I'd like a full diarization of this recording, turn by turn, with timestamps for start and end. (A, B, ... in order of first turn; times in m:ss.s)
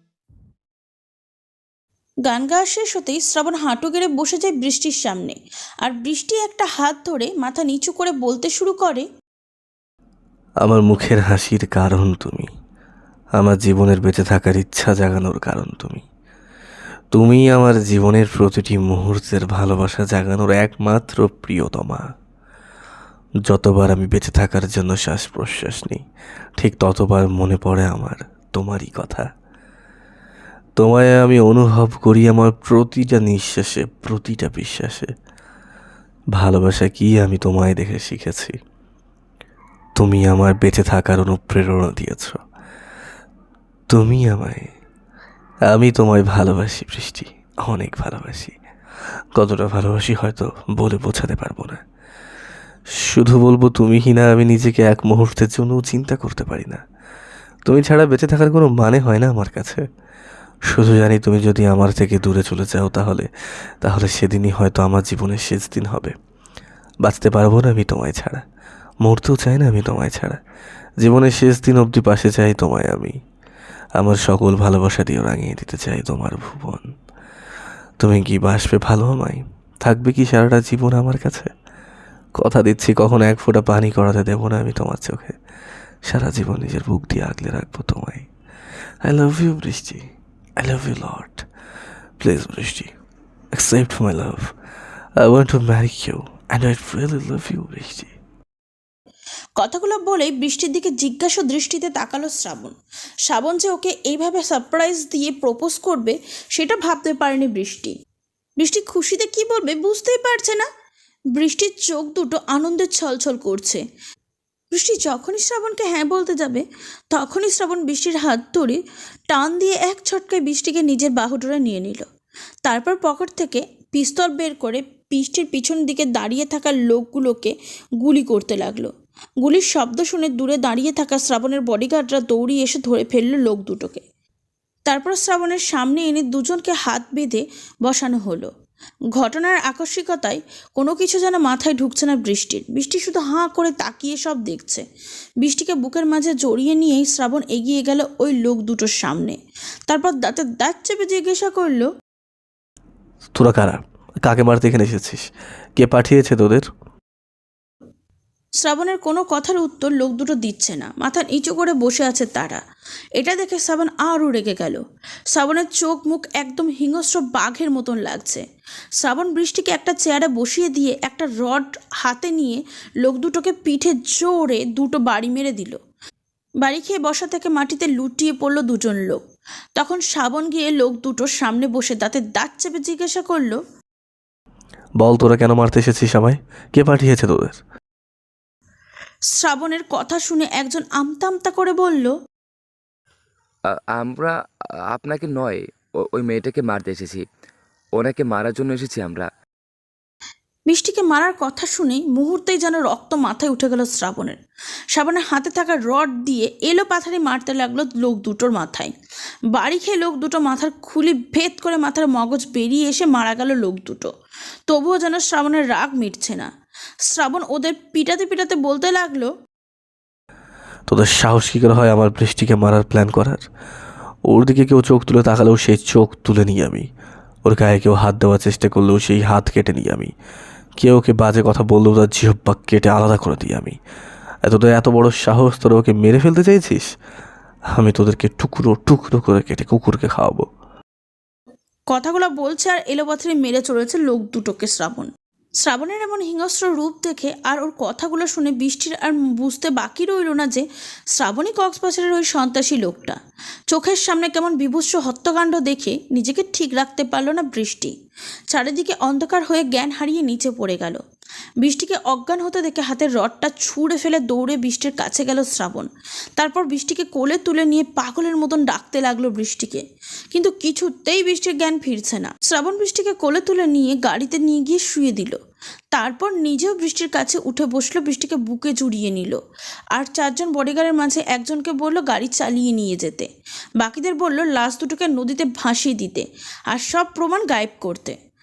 0:02.2-0:09.1 A
0:10.6-0:12.5 B
0:13.4-0:16.0 B
0:17.1-0:22.0 B
0:23.4-0:26.0 B
0:26.6-0:29.3 B
0:30.8-0:35.1 B
0:36.3-0:38.5 B
0:40.0-0:42.4 B
0:43.9-0:44.7 B
0:45.7-0:48.6 B
0:49.4-0:51.8 B
0:53.0-0:56.8 B
0:57.6-0:59.8 B
1:00.7-1:03.3 B
1:03.8-1:06.1 B
1:07.0-1:08.4 B
1:09.0-1:10.4 B
1:11.0-1:13.1 B
1:14.0-1:16.9 B
1:18.0-1:21.5 B
1:22.4-1:25.4 B
1:26.1-1:28.3 B
1:29.0-1:30.0 B
1:30.6-1:31.4 B
1:32.2-1:32.9 B
1:33.5-1:34.5 B
1:35.2-1:38.1 B
1:39.6-1:42.7 A
1:43.3-1:47.9 A
1:48.6-1:50.6 A
1:51.4-1:53.8 A
1:54.7-1:58.8 A
1:59.3-2:02.0 A
2:02.6-2:14.0 A
2:14.9-2:18.5 A
2:19.2-2:24.8 A
2:25.4-2:29.4 A
2:29.9-2:31.9 A
2:33.4-2:36.7 B
2:38.6-2:42.6 A
2:43.2-2:44.8 A
2:45.3-2:48.4 A
2:49.0-2:55.8 A
2:56.6-2:59.2 A
2:59.8-3:03.6 A
3:05.0-3:07.6 B
3:09.3-3:12.1 A
3:13.7-3:14.3 C
3:14.9-3:17.2 C
3:18.0-3:19.3 C
3:20.7-3:24.4 A
3:24.9-3:28.9 A
3:29.5-3:34.1 A
3:34.7-3:36.5 A
3:37.0-3:39.3 A
3:40.9-3:43.4 B
3:44.3-3:46.9 B
3:47.4-3:50.1 B
3:50.8-3:53.8 B
3:54.4-3:56.9 B
3:57.7-4:00.5 B
4:01.9-4:05.1 A
4:05.6-4:13.2 A
4:13.7-4:17.9 A
4:18.5-4:21.0 A
4:21.6-4:29.8 A
4:30.3-4:35.4 A
4:35.9-4:39.4 A
4:40.0-4:43.3 A
4:43.8-4:48.2 A